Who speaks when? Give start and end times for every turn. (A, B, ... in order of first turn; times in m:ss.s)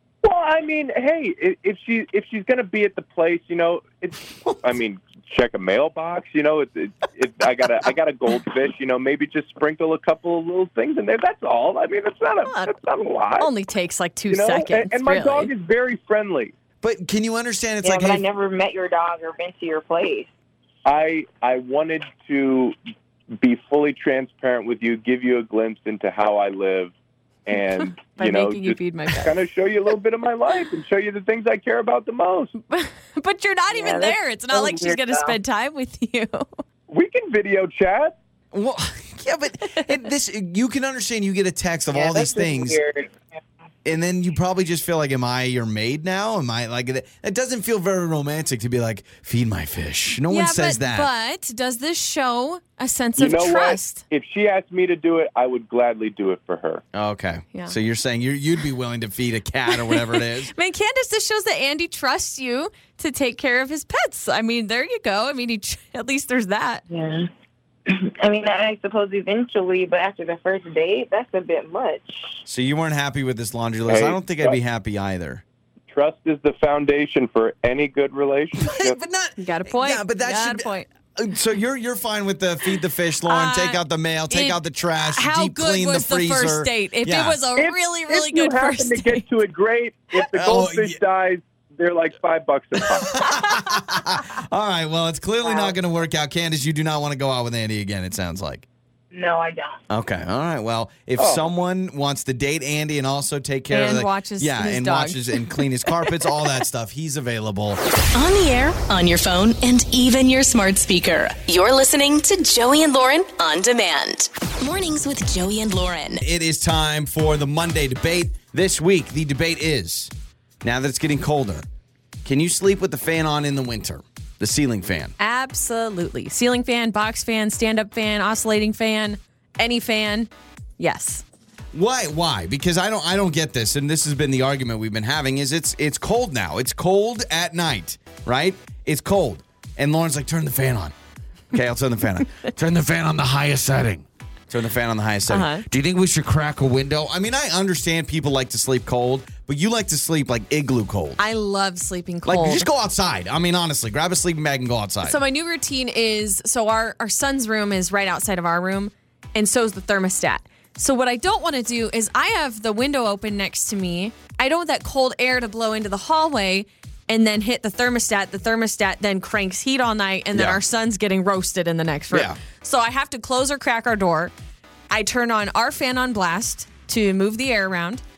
0:00.2-0:13.5 A
0:12.4-0:12.8 B
0:13.4-0:15.5 B
0:14.3-0:16.5 A
0:16.8-0:18.2 C
0:17.8-0:20.3 D
0:20.8-0:22.8 A
0:23.4-0:26.9 A
0:27.4-0:32.5 A
0:27.8-0:29.4 B
0:32.7-0:36.5 B
0:33.7-0:35.4 D
0:36.9-0:38.1 A
0:38.5-0:42.8 C
0:41.9-0:43.2 D
0:43.8-0:51.1 C
0:50.3-0:54.0 B
0:53.2-0:56.8 A
0:56.9-1:00.5 C
0:59.7-1:06.8 B
1:06.9-1:07.3 D
1:07.9-1:12.4 D
1:12.4-1:15.4 C
1:13.9-1:14.6 A
1:15.9-1:19.0 A
1:18.6-1:27.4 C
1:19.4-1:20.9 B
1:23.3-1:29.2 B
1:27.6-1:33.4 A
1:30.3-1:31.0 C
1:33.0-1:38.6 C
1:35.4-1:35.7 D
1:39.1-1:39.8 D
1:39.9-1:47.8 C
1:41.2-1:41.4 A
1:43.7-1:46.1 B
1:48.1-1:56.2 E
1:56.2-2:00.1 C
2:00.6-2:01.7 C
2:02.2-2:05.1 C
2:05.2-2:11.2 B
2:11.7-2:20.9 C
2:21.5-2:31.2 C
2:25.3-2:25.6 B
2:31.2-2:32.7 B
2:32.2-2:35.2 C
2:35.0-2:54.3 B
2:50.3-2:50.6 C
2:52.1-2:52.4 C
2:54.9-2:58.0 B